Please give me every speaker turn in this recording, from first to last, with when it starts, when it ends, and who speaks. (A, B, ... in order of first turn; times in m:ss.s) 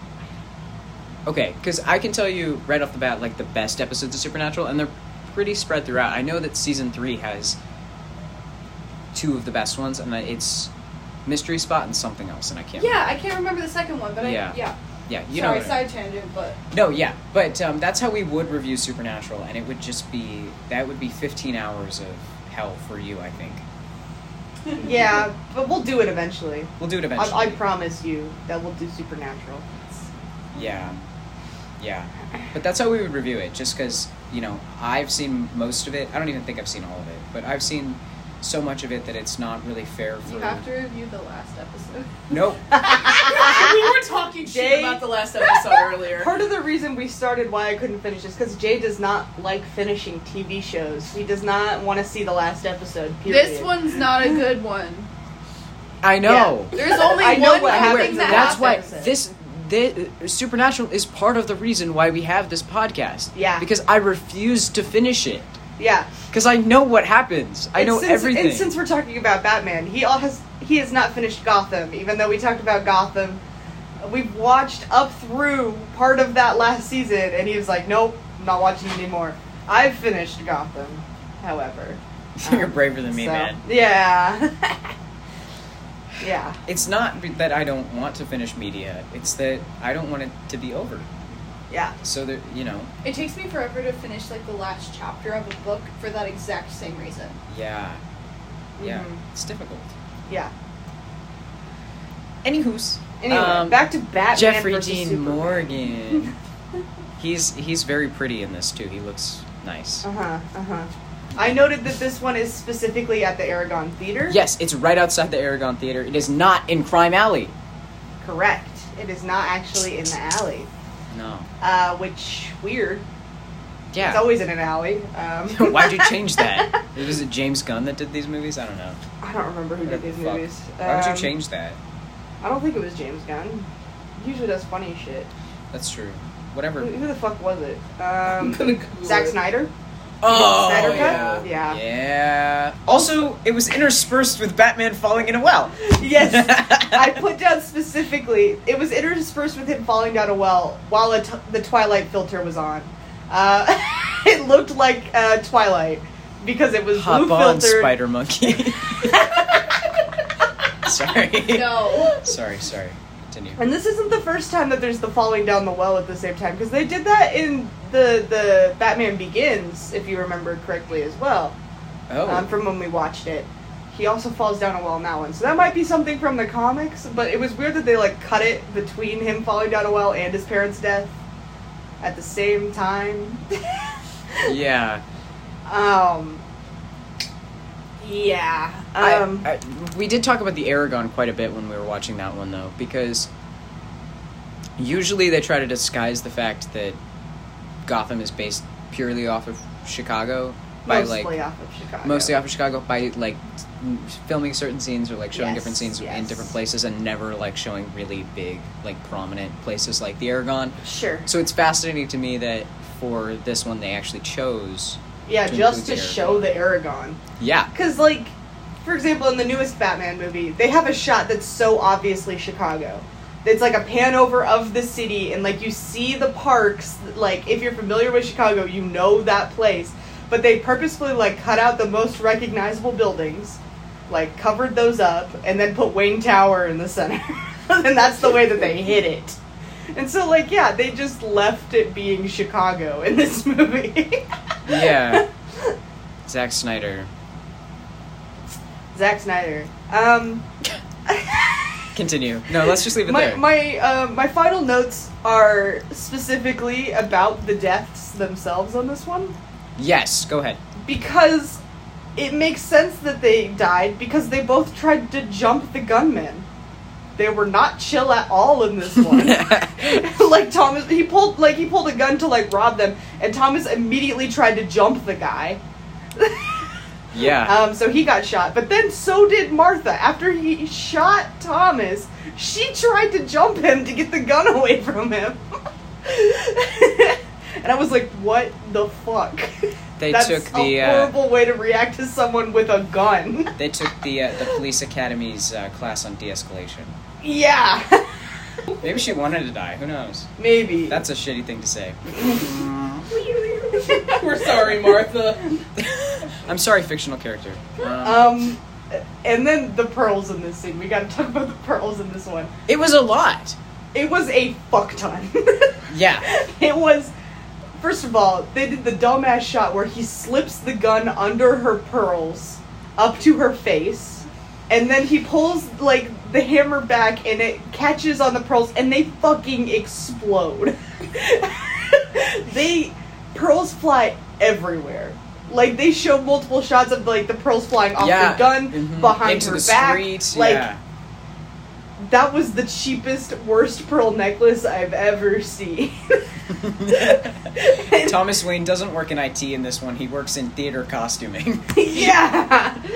0:01.3-0:07.6 A
0:09.1-0:10.7 A
0:11.3-0:13.1 A
0:12.8-0:14.8 B
0:14.2-0:15.9 A
0:15.3-0:16.6 B
0:16.7-0:23.6 A
0:24.8-0:30.1 C
0:26.8-0:27.6 A
0:30.5-0:31.0 A
0:31.8-0:40.6 A
0:40.3-0:42.3 B
0:42.3-0:43.3 A
0:42.7-0:43.9 C
0:43.1-0:46.3 D
0:44.4-0:45.1 C
0:46.1-0:53.8 C
0:53.3-0:55.1 B
0:56.0-0:56.8 A
0:56.2-0:59.2 C
0:56.7-0:58.9 B
0:57.4-1:05.5 A
1:03.4-1:03.7 C
1:05.8-1:06.1 C
1:06.3-1:08.7 A
1:07.8-1:13.4 C
1:14.0-1:24.9 C
1:22.4-1:23.6 A
1:26.2-1:26.6 C
1:26.7-1:31.1 A
1:31.7-1:32.0 C
1:32.0-1:32.9 A
1:33.0-1:37.4 B
1:37.5-1:38.0 A
1:38.8-1:39.2 C
1:38.8-1:39.9 A
1:42.4-1:46.4 A
1:43.2-1:46.2 C
1:47.2-1:50.0 A
1:50.0-1:54.4 C
1:54.3-1:57.5 A
1:58.2-2:00.7 C
2:01.1-2:01.5 A
2:01.6-2:03.0 C
2:03.9-2:04.3 A
2:04.0-2:06.8 C
2:05.5-2:09.0 A
2:09.2-2:11.3 C
2:09.8-2:11.8 A
2:12.4-2:15.3 C
2:15.7-2:16.9 A
2:16.8-2:19.7 C
2:18.4-2:19.4 D
2:20.2-2:27.2 A
2:20.3-2:21.8 C
2:20.3-2:21.4 D
2:25.8-2:38.0 C
2:36.9-2:39.4 A
2:39.0-2:39.7 C
2:40.8-2:43.6 A
2:41.4-2:42.2 B
2:43.6-2:51.6 C
2:52.1-2:52.5 A
2:52.3-3:01.1 C
3:02.0-3:04.5 C
3:04.4-3:05.0 A
3:05.7-3:06.4 C
3:08.0-3:09.5 C
3:09.0-3:13.3 A
3:14.8-3:17.0 A
3:17.8-3:21.3 A
3:20.9-3:22.4 C
3:22.0-3:36.5 A
3:25.3-3:26.5 C
3:30.8-3:31.3 C
3:35.3-3:37.2 C
3:37.4-3:37.7 A
3:37.7-3:38.3 C
3:38.8-3:59.4 C
3:59.9-4:05.7 C
4:04.7-4:05.3 A
4:06.3-4:07.1 A
4:08.9-4:10.4 C
4:11.1-4:11.9 C
4:12.0-4:13.4 A
4:12.6-4:19.3 C
4:19.8-4:20.6 A
4:20.8-4:21.6 C
4:22.2-4:26.5 C
4:27.2-4:35.6 C
4:29.0-4:30.0 A
4:36.2-4:36.7 C
4:37.1-4:37.6 A
4:37.4-4:45.4 C
4:46.0-4:49.5 C
4:50.0-4:51.1 A
4:50.1-4:53.6 C
4:53.6-4:57.0 A
4:57.2-4:58.3 C
4:58.8-5:00.3 A
5:00.4-5:01.0 C
5:00.9-5:03.1 A
5:03.2-5:04.2 C
5:03.8-5:05.6 D
5:05.8-5:08.4 A
5:08.0-5:12.5 C
5:12.7-5:13.6 A
5:13.9-5:17.1 C
5:15.9-5:16.3 A
5:17.8-5:40.7 C
5:38.0-5:40.8 A
5:42.0-5:46.2 C
5:46.5-5:52.2 A
5:46.9-5:48.2 C
5:51.7-5:52.8 C